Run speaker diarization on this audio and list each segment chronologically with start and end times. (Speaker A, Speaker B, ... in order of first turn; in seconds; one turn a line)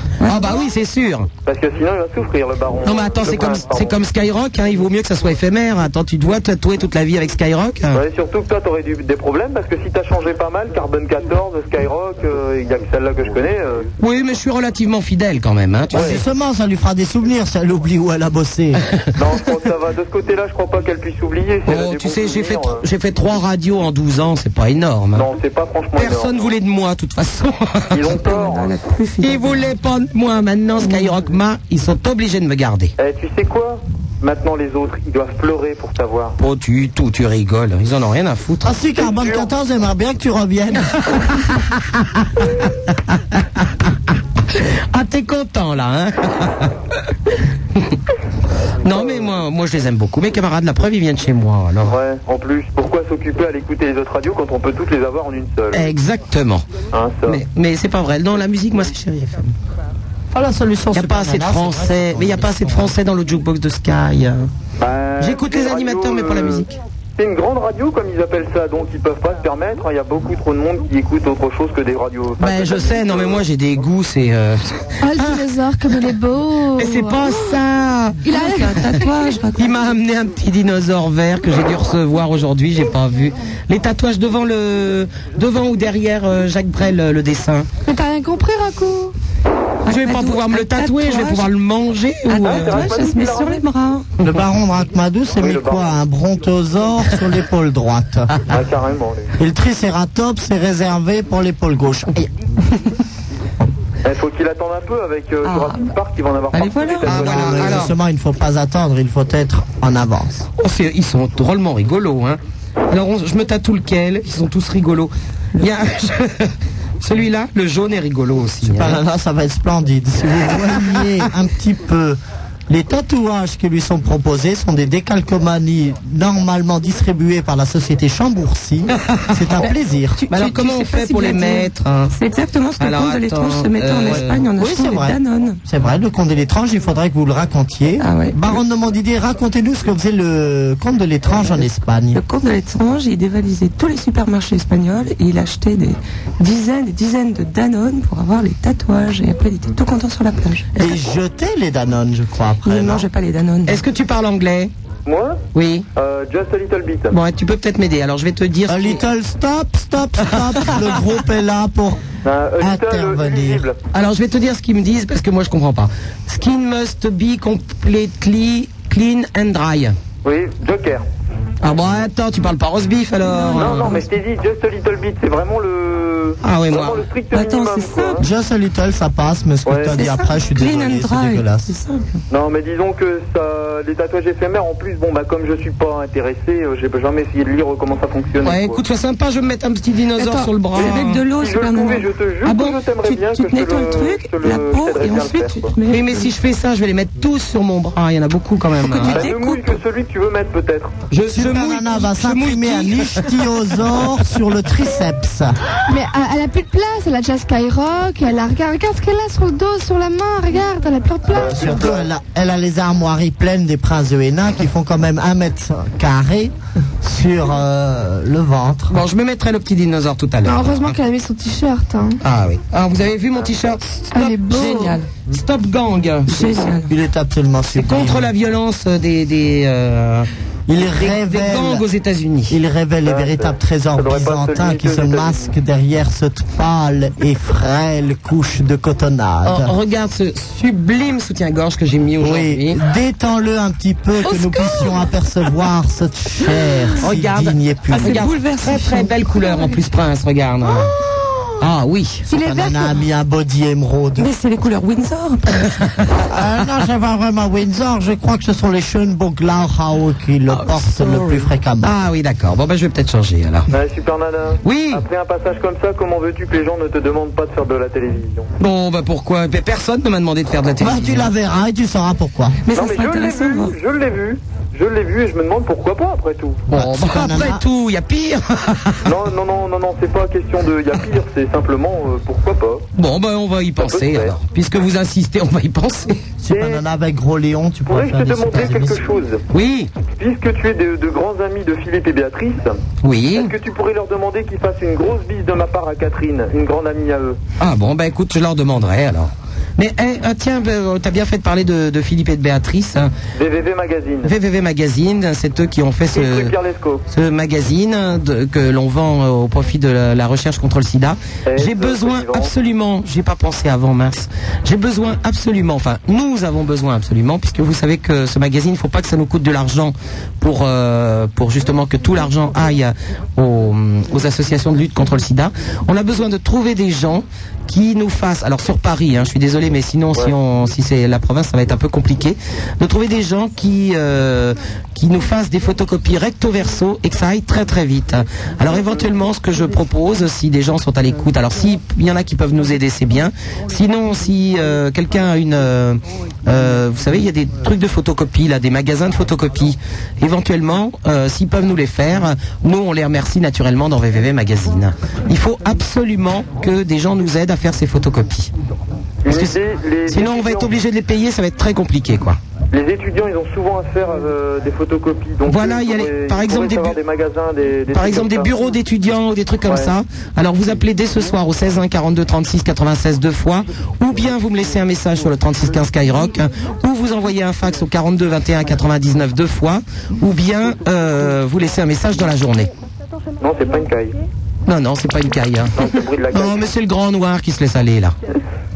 Speaker A: 0.2-0.7
Speaker B: 0.2-1.3
Speaker C: 1.4-4.0
Speaker B: 2.8-8.0
Speaker C: 7.9-13.9
Speaker B: 14.0-16.2
Speaker D: 15.9-18.8
Speaker C: 15.9-16.2
Speaker C: 19.1-22.8
Speaker B: 21.7-25.3
Speaker C: 25.1-26.5
Speaker B: 26.0-28.3
Speaker C: 27.9-28.8
Speaker A: 28.1-29.7
Speaker B: 29.2-32.9
Speaker C: 33.0-36.4
Speaker B: 36.4-38.7
Speaker D: 38.6-41.2
Speaker C: 39.0-39.5
Speaker B: 41.1-41.7
Speaker B: 44.5-46.7
Speaker B: 48.8-52.0
Speaker C: 48.9-49.3
Speaker C: 51.8-55.9
Speaker B: 55.7-56.7
Speaker C: 56.9-57.4
Speaker B: 57.2-59.5
Speaker D: 60.3-62.9
Speaker B: 60.9-64.5
Speaker C: 64.8-66.6
Speaker B: 65.2-66.8
Speaker C: 67.2-73.4
Speaker B: 72.4-75.4
Speaker E: 75.0-77.6
Speaker B: 76.8-79.0
Speaker E: 78.2-79.4
Speaker A: 78.3-79.8
Speaker B: 79.5-87.7
Speaker E: 87.8-89.1
Speaker A: 89.8-91.5
Speaker B: 89.9-92.9
Speaker A: 92.3-94.1
Speaker C: 92.4-93.6
Speaker D: 94.2-98.5
Speaker C: 95.4-95.9
Speaker C: 98.5-99.3
Speaker D: 99.4-102.3
Speaker C: 104.0-107.9
Speaker A: 105.4-105.9
Speaker A: 106.5-107.1
Speaker B: 107.0-107.9
Speaker D: 107.1-110.5
Speaker B: 110.6-112.4
Speaker B: 112.9-119.0
Speaker D: 118.6-130.2
Speaker B: 129.1-129.7
Speaker A: 129.6-135.6
Speaker B: 130.3-132.1
Speaker B: 132.8-134.4
Speaker D: 134.1-142.2
Speaker A: 138.0-138.6
Speaker A: 142.1-150.7
Speaker D: 150.8-153.1
Speaker A: 152.6-153.8
Speaker B: 153.7-154.7
Speaker C: 155.1-155.4
Speaker B: 155.5-155.8
Speaker C: 155.9-157.2
Speaker B: 157.1-159.0
Speaker D: 158.7-162.0
Speaker C: 162.2-163.8
Speaker D: 162.6-163.6
Speaker B: 163.9-169.9
Speaker C: 170.2-171.1
Speaker B: 171.6-174.0
Speaker A: 173.3-174.0
Speaker C: 173.5-178.2
Speaker B: 176.4-177.0
Speaker A: 177.3-178.2
Speaker D: 178.2-181.7
Speaker C: 179.7-180.0
Speaker A: 179.9-182.1
Speaker C: 182.3-188.8
Speaker B: 188.4-191.2
Speaker A: 190.2-196.3
Speaker C: 191.3-195.7
Speaker B: 192.5-192.7
Speaker B: 195.9-199.3
Speaker A: 198.8-199.8
Speaker C: 199.0-200.9
Speaker B: 201.1-203.6
Speaker D: 201.3-205.6
Speaker E: 205.9-211.7
Speaker D: 211.3-219.0
Speaker C: 211.3-212.1
Speaker B: 218.9-220.9
Speaker E: 220.4-222.2
Speaker B: 222.2-226.7
Speaker E: 224.1-225.0
Speaker A: 224.5-225.0
Speaker A: 226.3-226.9
Speaker D: 226.9-228.3
Speaker B: 227.7-230.3
Speaker D: 230.7-231.8
Speaker B: 230.8-232.6
Speaker D: 232.5-239.7
Speaker C: 233.0-235.5
Speaker B: 239.4-242.8
Speaker D: 242.2-248.3
Speaker B: 247.0-250.9
Speaker A: 247.9-249.7
Speaker D: 250.7-251.6
Speaker B: 251.6-252.2
Speaker D: 252.3-254.3
Speaker E: 252.3-252.9
Speaker A: 254.2-255.8
Speaker B: 255.8-256.0
Speaker D: 256.3-262.0
Speaker B: 260.5-261.3
Speaker B: 261.8-263.7
Speaker C: 263.7-268.5
Speaker B: 264.6-265.0
Speaker B: 268.6-271.3
Speaker D: 270.8-272.6
Speaker A: 272.6-273.7
Speaker C: 272.7-276.6
Speaker B: 276.7-279.1
Speaker D: 276.7-277.6
Speaker C: 279.0-282.9
Speaker B: 282.9-286.2
Speaker C: 283.8-284.3
Speaker D: 286.4-289.0
Speaker C: 286.5-286.8
Speaker C: 287.9-289.4
Speaker B: 289.5-289.9
Speaker C: 290.2-292.8
Speaker B: 293.0-293.5
Speaker C: 293.3-297.4
Speaker B: 297.6-303.1
Speaker C: 303.4-304.3
Speaker B: 304.2-306.5
Speaker C: 306.1-307.0
Speaker B: 307.1-358.5
Speaker C: 311.5-312.5
Speaker C: 359.2-360.7
Speaker B: 359.3-362.4
Speaker C: 362.7-368.5
Speaker B: 365.5-367.0
Speaker B: 367.9-382.7
Speaker C: 369.7-369.9
Speaker C: 383.4-384.2
Speaker B: 384.7-388.1
Speaker C: 385.8-386.6